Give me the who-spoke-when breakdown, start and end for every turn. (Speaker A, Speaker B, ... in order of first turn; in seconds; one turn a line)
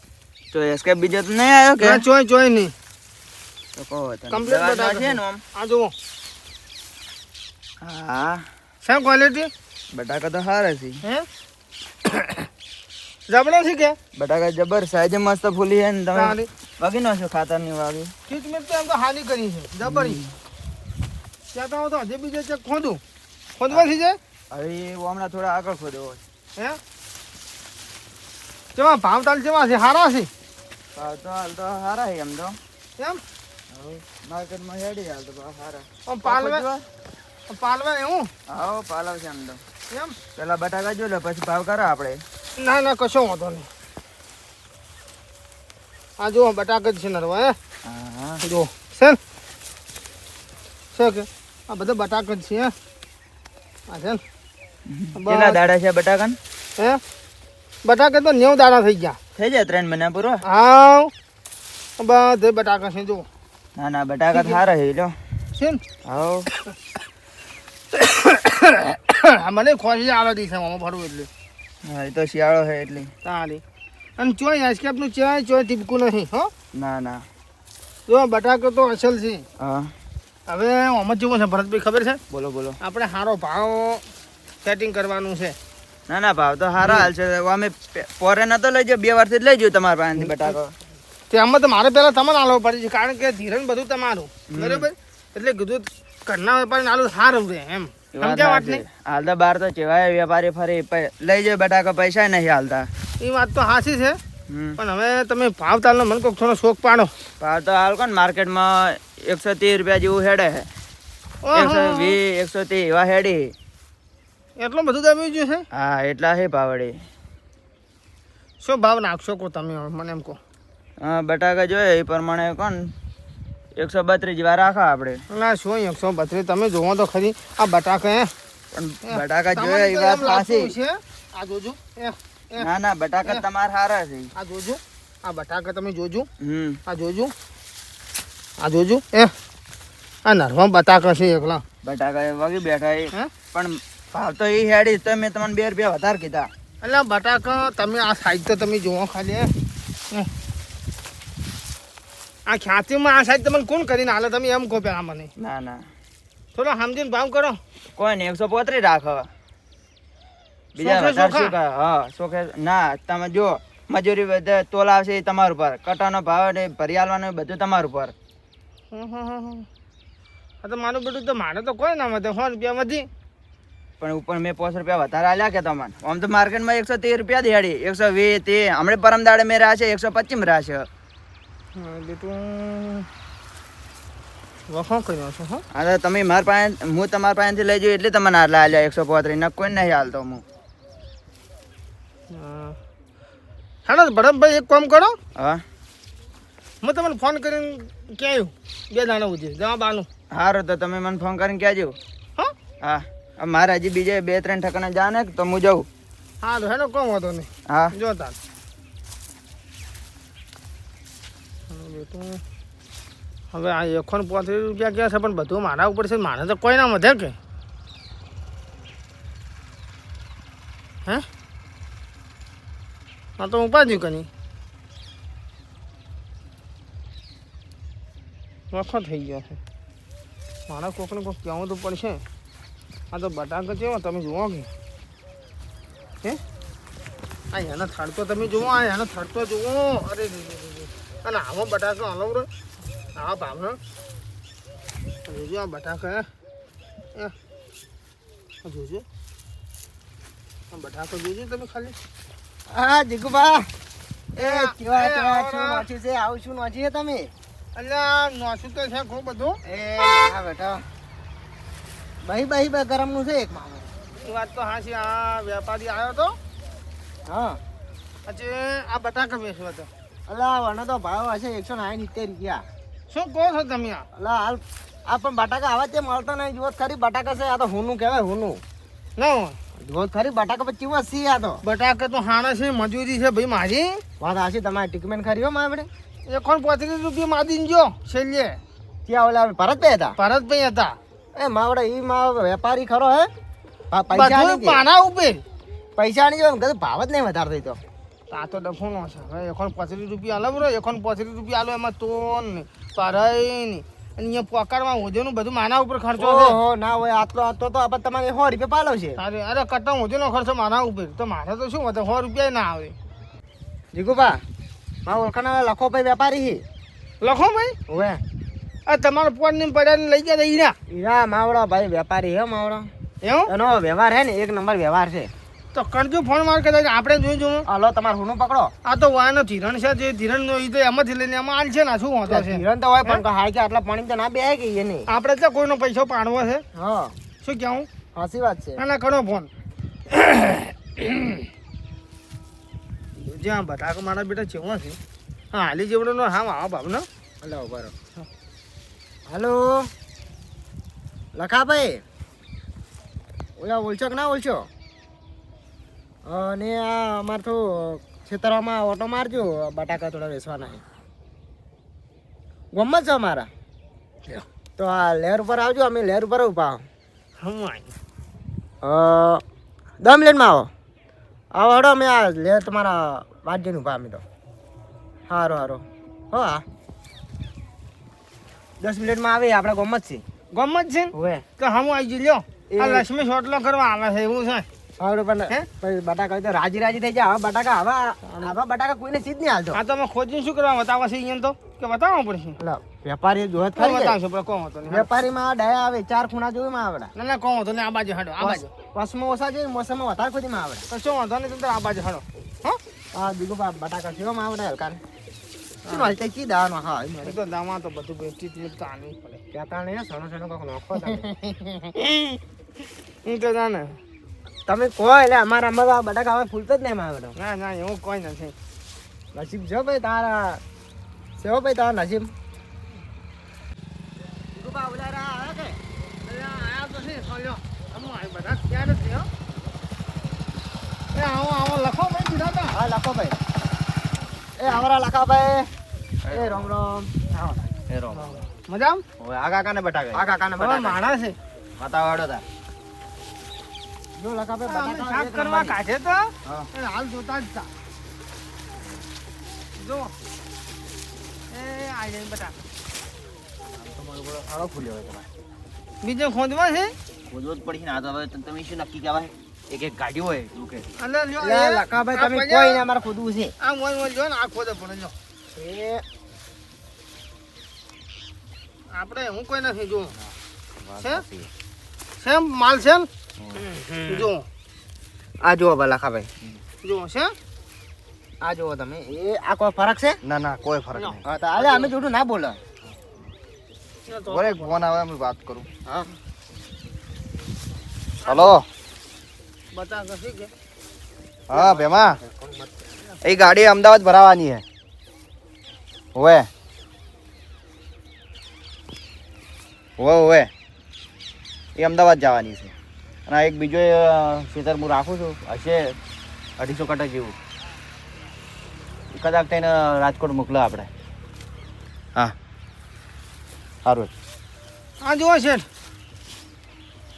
Speaker A: 0.5-2.0
Speaker B: 1.8-2.7
Speaker A: 3.8-5.4
Speaker B: 4.3-5.9
Speaker A: 7.8-8.4
Speaker B: 8.8-9.5
Speaker A: 9.9-11.0
Speaker B: 12.1-12.5
Speaker B: 13.3-14.0
Speaker A: 14.2-18.1
Speaker B: 16.1-16.5
Speaker B: 18.3-20.2
Speaker A: 19.8-20.3
Speaker B: 21.5-23.0
Speaker B: 23.6-24.2
Speaker A: 24.5-26.2
Speaker B: 28.8-30.3
Speaker A: 30.9-32.5
Speaker A: 33.7-36.8
Speaker B: 36.1-36.6
Speaker B: 37.5-38.3
Speaker A: 38.5-39.6
Speaker B: 39.9-40.2
Speaker A: 40.4-42.2
Speaker B: 42.6-43.7
Speaker B: 46.2-47.5
Speaker A: 47.8-48.4
Speaker B: 48.4-49.2
Speaker B: 50.9-52.7
Speaker B: 53.9-54.2
Speaker A: 54.9-56.4
Speaker B: 55.1-55.6
Speaker B: 57.8-59.2
Speaker A: 59.4-60.4
Speaker B: 60.4-61.1
Speaker B: 62.0-63.2
Speaker A: 63.8-65.1
Speaker B: 64.3-64.6
Speaker A: 66.0-66.5
Speaker B: 67.9-71.3
Speaker A: 71.8-73.1
Speaker B: 73.2-73.6
Speaker B: 74.2-76.5
Speaker A: 76.7-77.2
Speaker B: 78.1-79.5
Speaker A: 79.6-79.9
Speaker B: 80.5-82.2
Speaker A: 82.3-82.8
Speaker B: 82.8-84.0
Speaker B: 84.6-85.5
Speaker A: 86.1-90.7
Speaker B: 91.3-98.8
Speaker A: 94.5-94.9
Speaker A: 98.1-102.9
Speaker B: 103.2-104.2
Speaker A: 104.5-104.8
Speaker B: 104.8-107.1
Speaker A: 107.4-110.7
Speaker B: 111.4-112.2
Speaker A: 111.5-113.5
Speaker B: 114.6-115.7
Speaker A: 115.7-116.9
Speaker B: 118.6-120.4
Speaker A: 121.0-122.9
Speaker A: 123.8-125.2
Speaker B: 125.3-128.3
Speaker A: 128.7-130.7
Speaker B: 129.0-132.7
Speaker A: 132.6-134.3
Speaker B: 134.3-136.3
Speaker A: 136.4-136.8
Speaker B: 136.9-137.3
Speaker B: 138.6-139.3
Speaker B: 140.2-141.6
Speaker A: 141.8-146.5
Speaker B: 146.8-149.5
Speaker B: 152.5-155.3
Speaker A: 155.4-155.8
Speaker B: 156.5-157.6
Speaker A: 158.0-159.3
Speaker A: 160.8-168.1
Speaker B: 160.8-161.5
Speaker B: 168.9-169.7
Speaker B: 170.6-173.1
Speaker A: 174.0-180.9
Speaker B: 181.7-183.1
Speaker B: 184.7-185.6
Speaker A: 185.7-190.4
Speaker B: 192.3-192.8
Speaker B: 193.8-195.2
Speaker A: 195.3-195.6
Speaker B: 196.8-200.1
Speaker A: 200.3-201.9
Speaker A: 202.8-205.9
Speaker B: 206.4-208.3
Speaker A: 207.7-207.9
Speaker B: 211.7-212.4
Speaker B: 213.5-217.3
Speaker B: 223.4-224.3
Speaker B: 228.7-229.6
Speaker B: 230.7-232.2
Speaker B: 233.1-234.7
Speaker B: 237.5-242.5
Speaker B: 243.2-243.8
Speaker B: 245.2-246.3
Speaker B: 248.6-249.0
Speaker B: 250.7-251.9
Speaker C: 252.7-253.7
Speaker C: 254.3-257.3
Speaker B: 254.4-255.8
Speaker B: 257.8-259.6
Speaker C: 259.6-260.8
Speaker C: 262.2-263.9
Speaker B: 264.2-266.4
Speaker C: 267.3-267.6
Speaker B: 268.3-269.9
Speaker C: 270.3-272.6
Speaker B: 273.1-274.1
Speaker C: 274.1-278.6
Speaker B: 279.2-279.6
Speaker C: 279.8-281.6
Speaker B: 281.6-284.0
Speaker C: 284.2-285.9
Speaker B: 286.3-288.6
Speaker C: 289.1-290.1
Speaker B: 290.2-291.0
Speaker C: 291.4-293.3
Speaker C: 293.9-294.8
Speaker B: 294.1-295.4
Speaker C: 296.0-297.8
Speaker B: 298.3-306.6
Speaker C: 306.2-309.2
Speaker B: 309.2-312.9
Speaker C: 313.9-314.4
Speaker C: 315.1-316.6
Speaker B: 317.2-317.8
Speaker C: 317.9-318.2
Speaker B: 318.9-320.8
Speaker C: 320.9-322.9
Speaker B: 323.2-323.5
Speaker C: 323.5-325.3
Speaker B: 325.7-327.6
Speaker C: 327.7-328.7
Speaker B: 328.8-333.2
Speaker C: 332.3-335.1
Speaker B: 335.1-336.6
Speaker C: 336.7-337.1
Speaker B: 337.4-337.9
Speaker C: 338.1-338.8
Speaker B: 338.8-339.5
Speaker B: 340.1-341.5
Speaker B: 343.1-345.0
Speaker B: 345.5-347.1
Speaker C: 347.4-347.9
Speaker C: 349.3-349.9
Speaker C: 351.3-352.0
Speaker C: 353.6-354.7
Speaker C: 356.2-360.8
Speaker C: 362.7-363.5
Speaker C: 364.8-366.8
Speaker B: 367.4-367.9
Speaker C: 368.8-369.4
Speaker C: 370.0-370.7
Speaker C: 371.5-374.2
Speaker C: 375.3-376.6
Speaker C: 378.8-380.2
Speaker B: 380.5-384.6
Speaker C: 381.1-381.4
Speaker C: 382.7-383.1
Speaker C: 385.0-389.8
Speaker B: 388.2-388.5
Speaker B: 389.7-392.6
Speaker C: 392.6-394.2
Speaker B: 393.8-395.1
Speaker C: 394.9-397.1
Speaker B: 397.1-398.7
Speaker C: 398.4-400.9
Speaker B: 400.9-402.8
Speaker C: 403.1-405.0
Speaker B: 405.8-406.1
Speaker C: 405.9-407.4
Speaker B: 407.2-409.4
Speaker C: 409.5-411.3
Speaker B: 411.1-412.4
Speaker B: 413.2-414.0
Speaker C: 414.7-417.4
Speaker B: 417.4-418.6
Speaker C: 419.3-420.6
Speaker C: 421.4-422.3
Speaker C: 424.5-425.8
Speaker B: 426.2-429.3
Speaker B: 431.1-432.8
Speaker C: 432.7-433.4
Speaker C: 434.6-435.7
Speaker A: 436.2-436.7
Speaker C: 436.2-437.7
Speaker A: 437.9-438.4
Speaker B: 438.1-439.0
Speaker A: 439.2-440.2
Speaker C: 440.1-441.0
Speaker B: 440.6-441.4
Speaker A: 441.8-442.4
Speaker C: 444.1-445.8
Speaker B: 444.7-447.7
Speaker B: 449.8-450.1
Speaker B: 451.5-452.6
Speaker A: 453.7-455.3
Speaker B: 456.0-456.9
Speaker A: 457.3-460.8
Speaker B: 461.0-462.8
Speaker C: 461.4-463.5
Speaker B: 463.6-465.1
Speaker C: 465.5-466.0
Speaker B: 468.9-470.1
Speaker A: 470.8-471.5
Speaker B: 472.2-473.1
Speaker C: 473.6-474.3
Speaker B: 474.1-474.4
Speaker C: 475.4-476.3
Speaker B: 476.8-477.3
Speaker C: 478.4-480.2
Speaker A: 480.2-481.2
Speaker B: 480.9-481.9
Speaker C: 481.2-482.6
Speaker B: 484.1-484.8
Speaker A: 484.3-485.7
Speaker B: 488.2-488.5
Speaker A: 488.2-488.6
Speaker B: 489.7-490.5
Speaker A: 491.5-492.2
Speaker C: 491.5-492.8
Speaker A: 493.2-494.6
Speaker A: 496.1-496.5
Speaker A: 500.0-500.5
Speaker A: 501.8-502.7
Speaker A: 503.3-506.0
Speaker A: 506.6-507.3
Speaker A: 509.1-510.9
Speaker A: 513.8-514.1
Speaker B: 515.0-515.6